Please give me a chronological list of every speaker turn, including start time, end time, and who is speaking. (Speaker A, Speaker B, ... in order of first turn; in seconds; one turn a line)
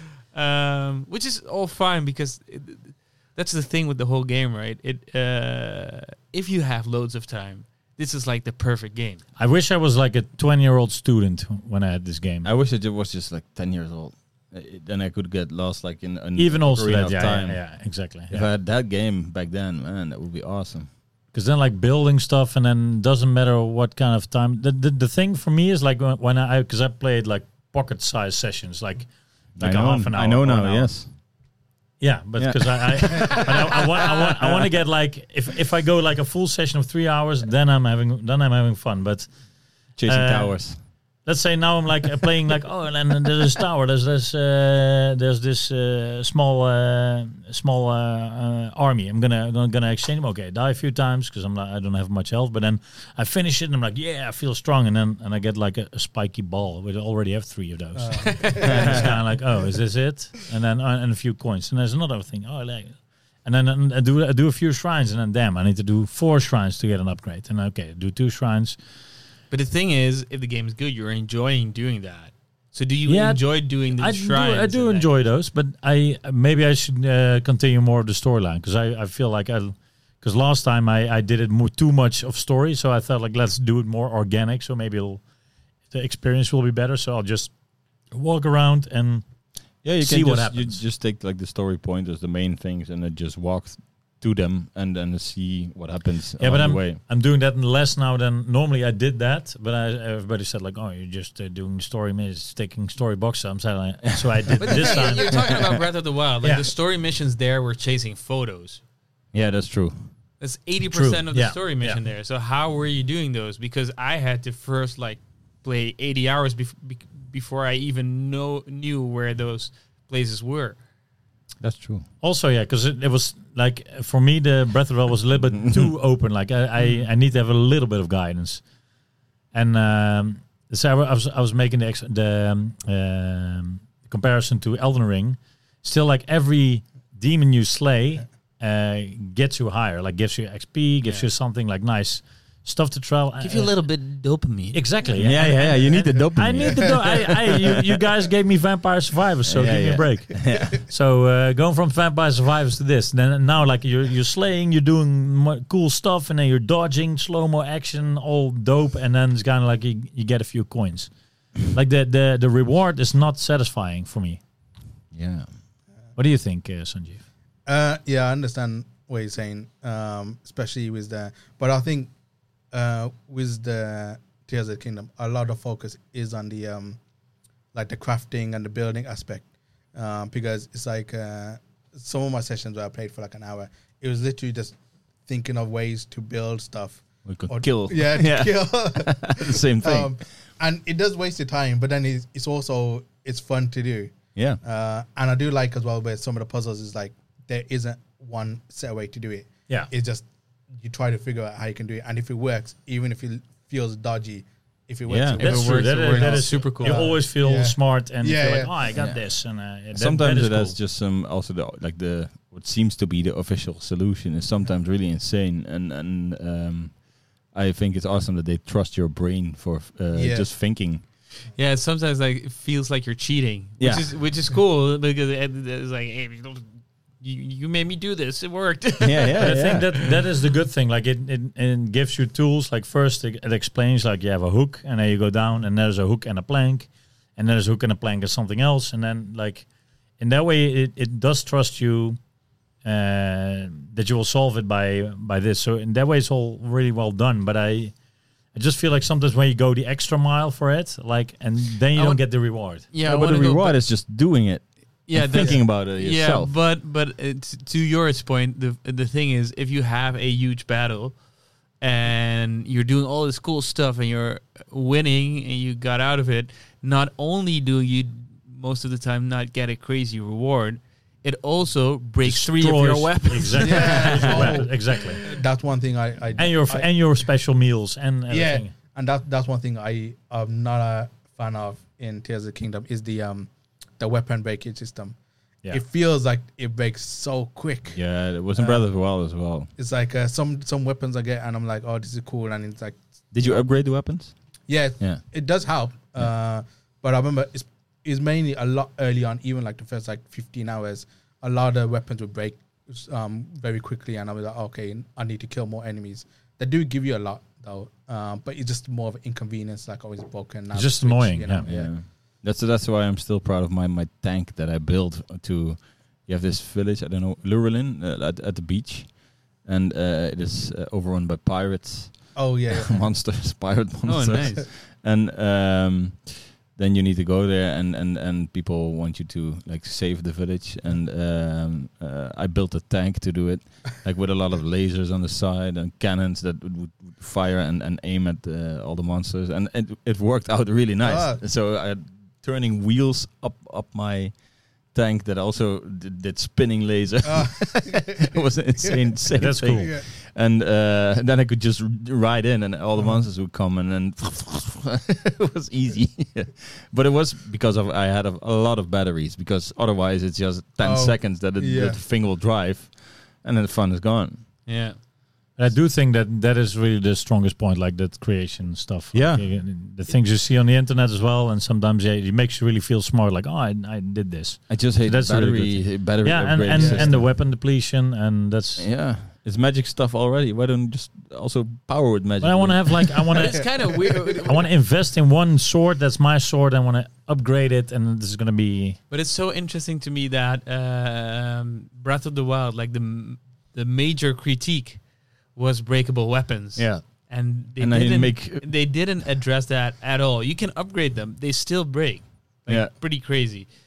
Speaker A: 0.3-9.2
Speaker B: 9.4-12.5
Speaker C: 12.4-20.9
Speaker B: 16.4-18.5
Speaker B: 21.3-30.9
Speaker C: 29.6-31.1
Speaker B: 32.0-39.3
Speaker C: 32.4-34.7
Speaker C: 40.0-40.8
Speaker B: 40.0-40.6
Speaker B: 41.2-68.8
Speaker D: 57.9-59.1
Speaker A: 58.2-59.0
Speaker C: 58.6-59.2
Speaker A: 69.5-75.1
Speaker B: 73.0-85.2
Speaker B: 85.9-87.5
Speaker B: 88.1-89.2
Speaker C: 89.8-97.0
Speaker B: 90.0-90.8
Speaker B: 96.4-105.4
Speaker A: 104.5-108.8
Speaker C: 105.3-105.8
Speaker B: 106.4-106.7
Speaker C: 109.3-110.0
Speaker A: 110.4-120.8
Speaker B: 110.9-112.0
Speaker C: 121.6-122.0
Speaker B: 122.2-128.6
Speaker C: 125.6-125.9
Speaker B: 129.5-143.7
Speaker A: 143.4-144.8
Speaker B: 144.7-161.1
Speaker C: 145.1-147.8
Speaker D: 145.9-146.2
Speaker C: 149.4-150.8
Speaker B: 161.6-164.4
Speaker C: 165.1-165.5
Speaker B: 166.2-167.2
Speaker D: 167.7-172.1
Speaker D: 172.7-177.0
Speaker D: 177.7-208.9
Speaker C: 187.2-190.2
Speaker C: 194.3-194.6
Speaker C: 205.1-205.4
Speaker A: 205.4-207.1
Speaker B: 205.4-210.8
Speaker C: 208.9-209.3
Speaker C: 209.9-217.0
Speaker C: 217.5-221.0
Speaker D: 220.1-220.5
Speaker A: 221.6-226.7
Speaker C: 223.8-224.1
Speaker A: 227.2-230.1
Speaker C: 229.0-229.9
Speaker B: 229.4-239.7
Speaker B: 240.2-242.2
Speaker B: 242.8-247.9
Speaker B: 248.5-252.8
Speaker A: 251.9-253.8
Speaker C: 253.0-256.5
Speaker A: 255.1-261.2
Speaker A: 261.8-274.6
Speaker B: 272.2-275.2
Speaker D: 273.6-276.9
Speaker C: 273.8-274.5
Speaker B: 276.4-278.7
Speaker D: 278.3-285.1
Speaker D: 285.7-288.0
Speaker C: 287.9-289.7
Speaker D: 288.5-288.8
Speaker D: 289.8-293.7
Speaker C: 293.3-294.3
Speaker D: 294.7-312.0
Speaker B: 310.7-311.7
Speaker C: 311.6-344.3
Speaker D: 322.3-323.1
Speaker A: 324.1-324.6
Speaker D: 341.0-341.4
Speaker C: 344.9-364.4
Speaker D: 347.2-349.0
Speaker B: 349.3-349.9
Speaker D: 349.7-350.0
Speaker D: 360.8-362.0
Speaker A: 364.6-365.0
Speaker B: 365.6-378.9
Speaker C: 369.1-369.5
Speaker C: 374.7-377.3
Speaker D: 376.7-377.2
Speaker C: 378.8-383.3
Speaker B: 382.4-383.8
Speaker A: 383.3-384.7
Speaker B: 384.4-389.0
Speaker A: 389.1-395.0
Speaker A: 395.5-403.7
Speaker C: 396.8-397.1
Speaker C: 397.8-398.7
Speaker C: 402.7-402.9